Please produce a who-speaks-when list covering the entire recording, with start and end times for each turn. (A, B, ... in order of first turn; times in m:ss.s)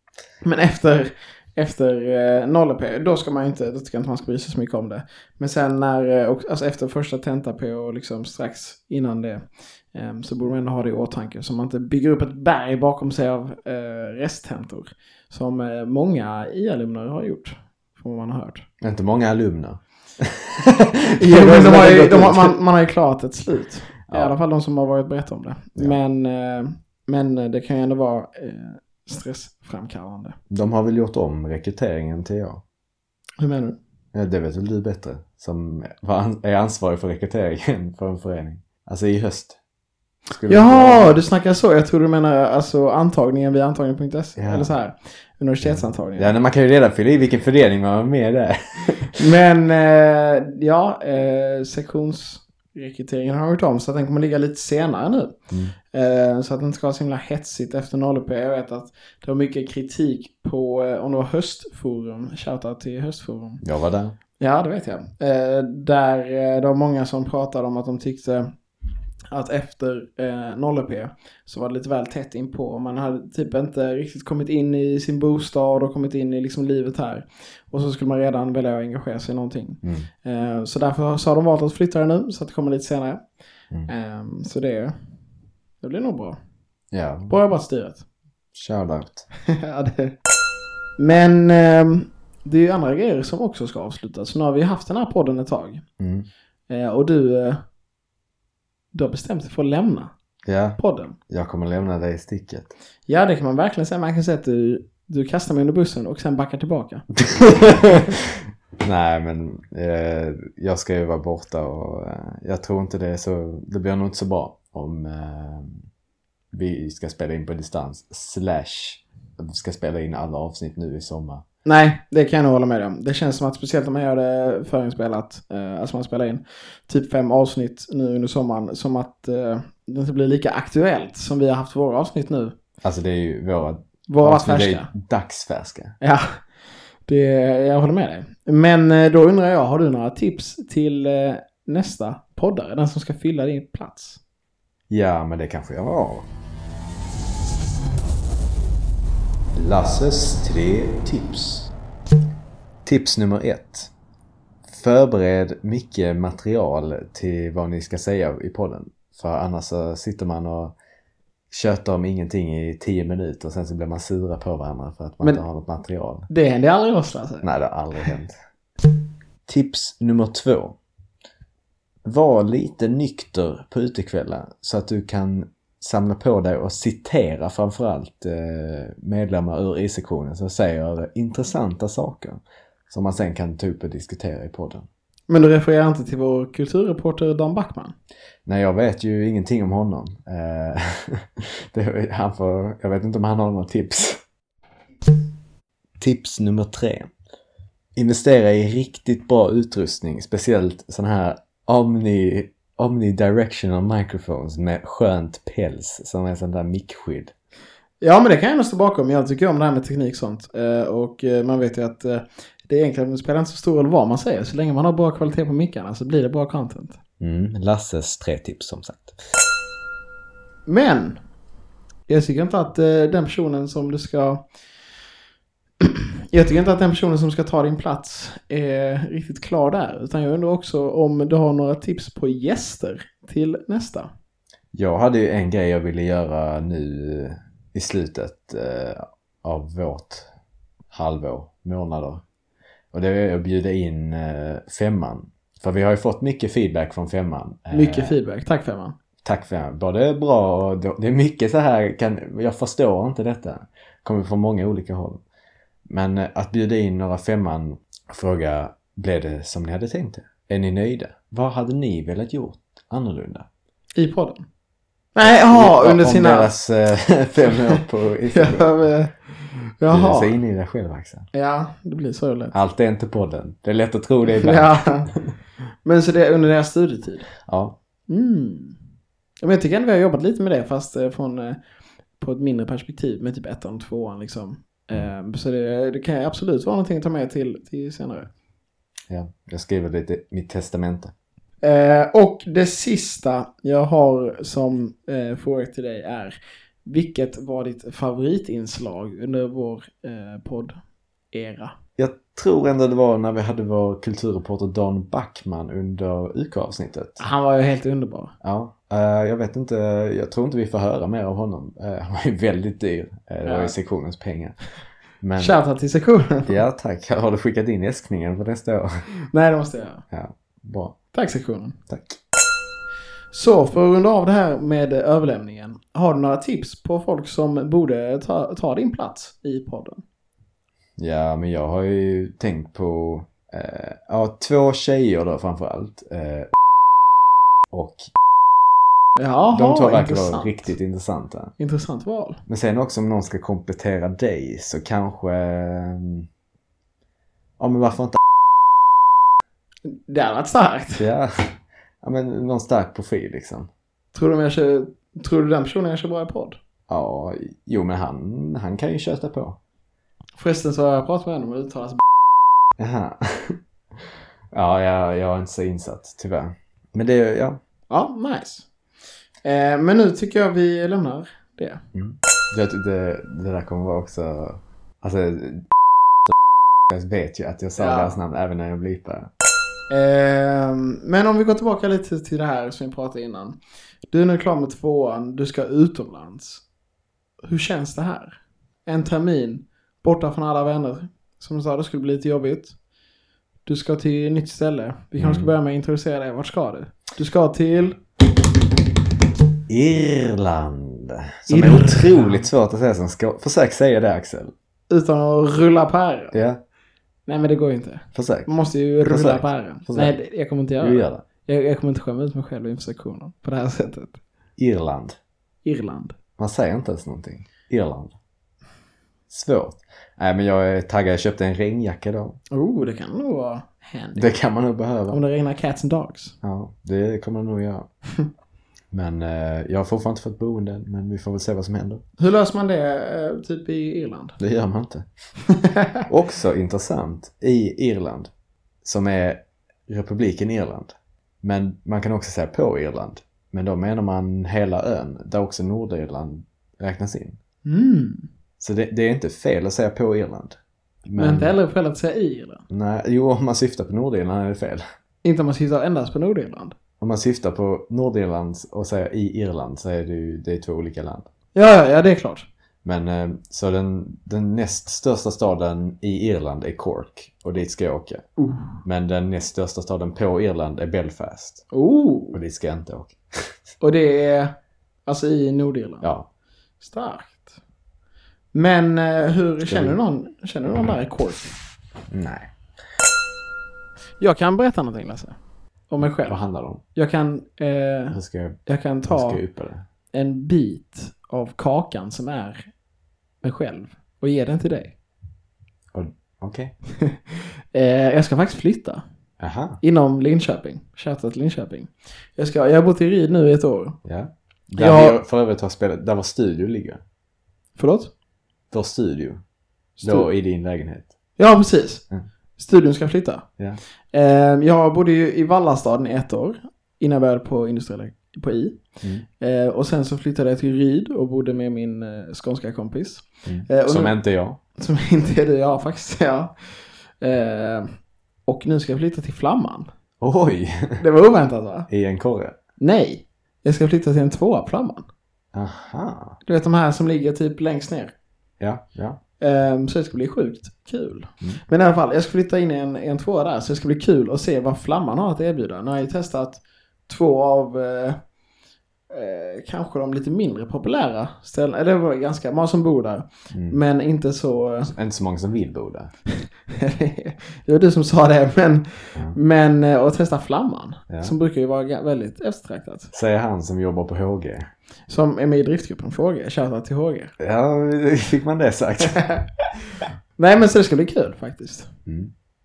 0:00.4-0:18.7 A
0:18.8-0:22.6 B
0:21.2-0:30.4 A
0:24.1-0:24.3 B
0:30.5-0:32.6 B
0:33.4-0:33.8 A
0:34.1-0:39.6 B
0:40.3-0:41.2 B
0:40.5-0:46.3 A
0:44.4-0:44.7 B
0:45.6-0:49.2 B
0:49.2-0:55.4 A
0:55.9-1:03.6 A
1:03.6-1:04.2 B
1:04.4-1:08.5 A
1:09.3-1:23.2 A
1:19.8-1:20.1 B
1:23.9-1:24.9 A
1:25.8-1:26.4 A
1:26.9-1:27.3 B
1:27.3-1:28.0 A
1:28.5-1:29.2 B
1:29.4-1:30.1 A
1:31.0-1:35.8 A
1:36.0-1:36.3 B
1:36.7-1:37.6 A
1:38.9-1:40.1 A
1:40.4-1:42.7 B
1:40.8-1:41.2 A
1:43.1-1:48.1 A
1:47.5-1:48.1 B
1:48.8-1:55.8 B
1:56.5-2:01.4 B
2:01.6-2:12.5 A
2:12.8-2:16.0 B
2:14.1-2:14.9 A
2:16.0-2:16.4 A
2:17.1-2:24.2 A
2:24.9-2:26.3 B
2:29.5-2:31.7 B
2:32.8-2:33.9 B
2:34.7-2:40.7 B
2:41.5-2:46.3 B
2:46.3-2:47.5 A
2:47.4-2:48.3 B
2:49.5-2:50.8 B
2:52.0-3:04.9 B
3:05.3-3:07.9 A
3:08.4-3:14.2 B
3:16.0-3:17.1 B
3:18.0-3:27.3 B
3:28.0-3:37.0 A
3:37.2-3:39.2 B
3:40.6-3:41.2 A
3:42.1-3:44.4 A
3:45.8-3:54.1 A
3:54.7-4:00.3 B
4:00.9-4:02.2 B
4:02.9-4:08.2 B
4:07.7-4:08.9 A
4:09.2-4:15.2 B
4:15.9-4:23.4 B
4:24.0-4:24.4 A
4:25.1-4:26.5 A
4:25.2-4:28.7 B
4:27.5-4:30.3 A
4:29.9-4:31.2 B
4:31.3-4:32.5 A
4:32.5-4:35.3 B
4:34.3-4:35.1 A
4:35.8-4:37.3 A
4:37.4-4:37.8 B
4:38.1-4:38.8 A
4:39.4-4:41.6 A
4:42.2-4:48.3 A
4:49.1-4:51.1 B
4:51.6-4:56.3 A
4:56.8-5:00.8 A
5:01.3-5:01.7 A
5:02.0-5:07.2 B
5:07.2-5:08.3 A
5:08.4-5:14.6 B
5:13.4-5:13.7 A
5:15.2-5:15.6 B
5:15.4-5:16.5 A
5:16.5-5:19.0 B
5:19.3-5:20.0 A
5:20.1-5:20.9 B
5:21.1-5:21.8 A
5:21.9-5:22.2 B
5:23.3-5:30.0 A
5:31.0-5:36.5 B
5:37.7-5:38.1 B
5:39.2-5:40.7 A
5:39.5-5:41.5 B
5:41.6-5:42.4 A
5:42.5-5:46.3 B
5:47.6-5:48.2 B
5:49.8-5:51.0 A
5:51.0-5:53.7 B
5:54.1-5:56.6 A
5:56.9-5:59.6 B
6:00.4-6:02.0 A
6:02.8-6:07.6 B
6:07.9-6:08.7 A
6:09.4-6:11.8 A
6:11.9-6:15.7 B
6:16.9-6:19.3 B
6:17.8-6:18.2 A
6:19.9-6:23.6 A
6:24.1-6:26.6 A
6:27.4-6:32.8 A
6:33.6-6:38.0 A
6:35.2-6:35.5 B
6:39.7-6:44.5 B
6:41.5-6:42.4 A
6:44.9-6:46.4 A
6:46.3-6:46.6 B
6:47.3-6:54.2 A
6:48.1-6:48.5 B
6:49.0-6:50.2 B
6:50.8-6:51.2 B
6:54.6-6:55.2 B
6:55.6-6:56.1 A
6:56.4-6:58.1 B
6:59.3-7:02.4 B
7:02.5-7:04.3 A
7:04.2-7:05.2 B
7:05.1-7:06.4 A
7:06.4-7:07.9 B
7:08.9-7:12.0 B
7:12.2-7:14.4 A
7:14.4-7:15.0 B
7:15.5-7:16.0 A
7:16.1-7:18.3 B
7:18.8-7:27.4 B
7:27.6-7:28.3 A
7:28.6-7:31.5 B
7:31.2-7:32.6 A
7:32.7-7:34.8 B
7:35.2-7:36.8 A
7:37.0-7:41.2 B
7:41.5-7:42.5 A
7:42.8-7:48.2 B
7:48.4-7:48.8 A
7:48.8-7:51.6 B
7:51.7-7:52.4 A
7:52.3-7:53.5 B
7:53.8-7:54.5 A
7:55.0-7:56.1 A
7:56.0-7:56.3 B
7:56.8-7:57.5 A
7:58.5-8:01.5 A
7:59.6-8:00.0 B
8:02.1-8:02.5 B
8:04.2-8:05.4 A
8:05.9-8:06.4 A
8:06.2-8:06.8 B
8:06.9-8:09.4 A
8:08.1-8:09.8 B
8:10.1-8:12.7 A
8:13.4-8:14.9 A
8:15.9-8:16.7 B
8:17.0-8:19.0 A
8:19.4-8:19.8 B
8:19.8-8:24.0 A
8:24.0-8:27.0 B
8:24.8-8:25.2 A
8:27.8-8:28.1 A
8:28.7-8:29.4 B
8:30.0-8:30.3 A
8:30.0-8:31.1 B
8:31.4-8:32.0 A
8:32.6-8:33.4 A
8:34.1-8:38.8 A
8:39.4-8:44.2 A
8:43.4-8:44.6 B
8:44.7-8:46.5 A
8:47.2-8:47.9 A
8:48.4-8:49.9 A
8:50.2-8:51.0 B
8:51.0-8:51.9 A
8:51.9-8:52.5 B
8:52.8-8:55.0 A
8:55.5-8:56.4 B
8:56.4-8:58.1 A
8:58.6-8:59.2 B
8:59.4-9:08.2 A
9:09.1-9:14.9 A
9:13.5-9:13.8 B
9:14.9-9:16.1 B
9:16.7-9:23.1 A
9:23.1-9:24.7 B
9:25.1-9:27.3 A
9:27.4-9:29.2 B
9:29.0-9:29.4 A
9:30.4-9:31.9 A
9:32.0-9:32.3 B